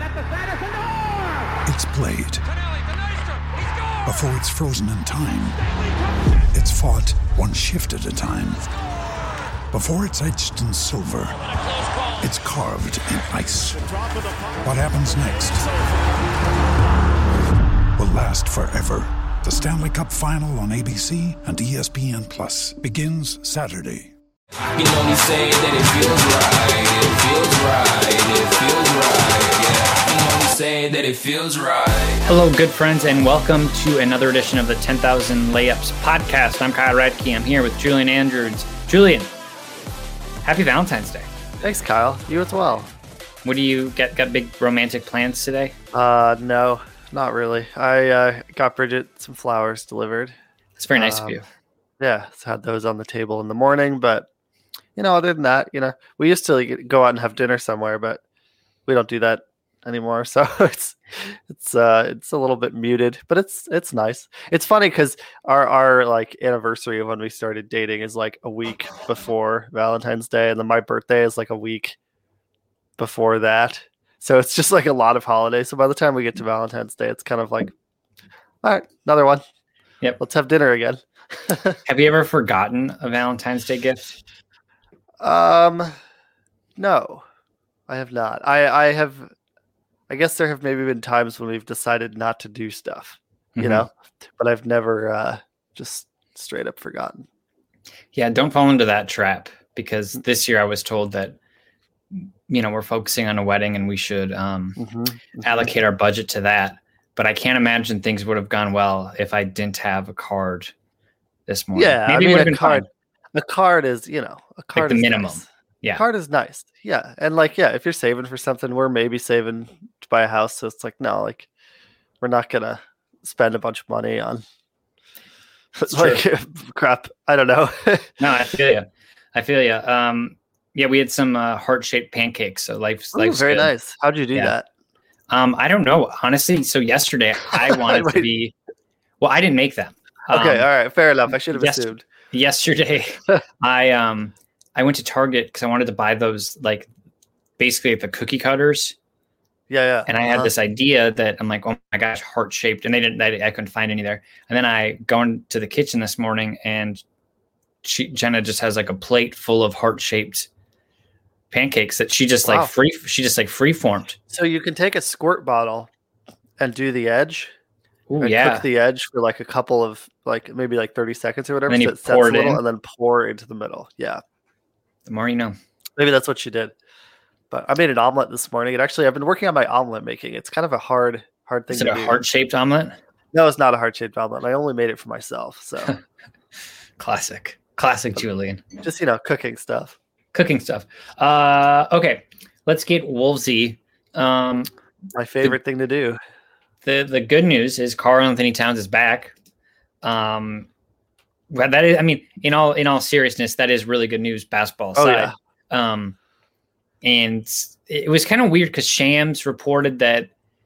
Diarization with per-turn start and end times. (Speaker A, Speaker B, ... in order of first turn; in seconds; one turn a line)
Speaker A: 1.6-2.5
Speaker A: 4.0-5.6
Speaker A: 6.5-8.7
Speaker A: 9.7-11.4
Speaker A: 12.2-14.0
Speaker A: 14.6-15.7
Speaker A: 17.9-24.1
Speaker B: 24.7-32.2
Speaker C: 32.2-39.3
Speaker C: 40.4-41.3
Speaker D: 41.6-42.9
Speaker C: 43.4-45.7
Speaker D: 45.9-50.4
Speaker C: 50.8-51.4
Speaker D: 50.9-51.4
Speaker D: 52.0-54.3
Speaker D: 55.0-58.2
Speaker D: 58.9-72.0
Speaker D: 73.0-77.7
Speaker D: 78.6-79.4
Speaker D: 80.2-81.8
Speaker C: 81.8-84.1
Speaker D: 85.2-85.9
Speaker D: 86.8-87.2
Speaker D: 87.9-89.3
Speaker D: 90.1-97.3
Speaker C: 93.5-93.9
Speaker C: 98.1-101.3
Speaker C: 102.1-104.8
Speaker D: 104.8-105.7
Speaker C: 105.4-110.7
Speaker C: 111.5-112.8
Speaker D: 111.7-121.5
Speaker C: 114.7-116.0
Speaker D: 122.2-124.4
Speaker D: 125.8-128.2
Speaker C: 125.9-126.2
Speaker C: 128.2-133.7
Speaker D: 133.1-134.7
Speaker C: 135.3-138.5
Speaker D: 137.5-138.2
Speaker C: 139.2-140.7
Speaker D: 140.3-142.0
Speaker C: 141.5-146.9
Speaker C: 147.6-148.9
Speaker D: 149.7-150.5
Speaker C: 150.1-157.0
Speaker C: 157.8-160.5
Speaker C: 161.5-164.2
Speaker D: 164.3-165.9
Speaker D: 166.6-167.5
Speaker C: 168.1-168.7
Speaker D: 168.2-174.2
Speaker C: 171.7-172.6
Speaker C: 175.1-175.6
Speaker D: 176.0-176.7
Speaker D: 177.5-182.2
Speaker C: 181.7-183.0
Speaker D: 183.3-185.9
Speaker C: 187.0-188.6
Speaker D: 188.8-190.0
Speaker C: 190.3-194.7
Speaker D: 195.1-196.2
Speaker C: 196.8-199.3
Speaker C: 200.0-200.7
Speaker C: 201.5-206.2
Speaker D: 204.9-205.3
Speaker C: 207.0-210.3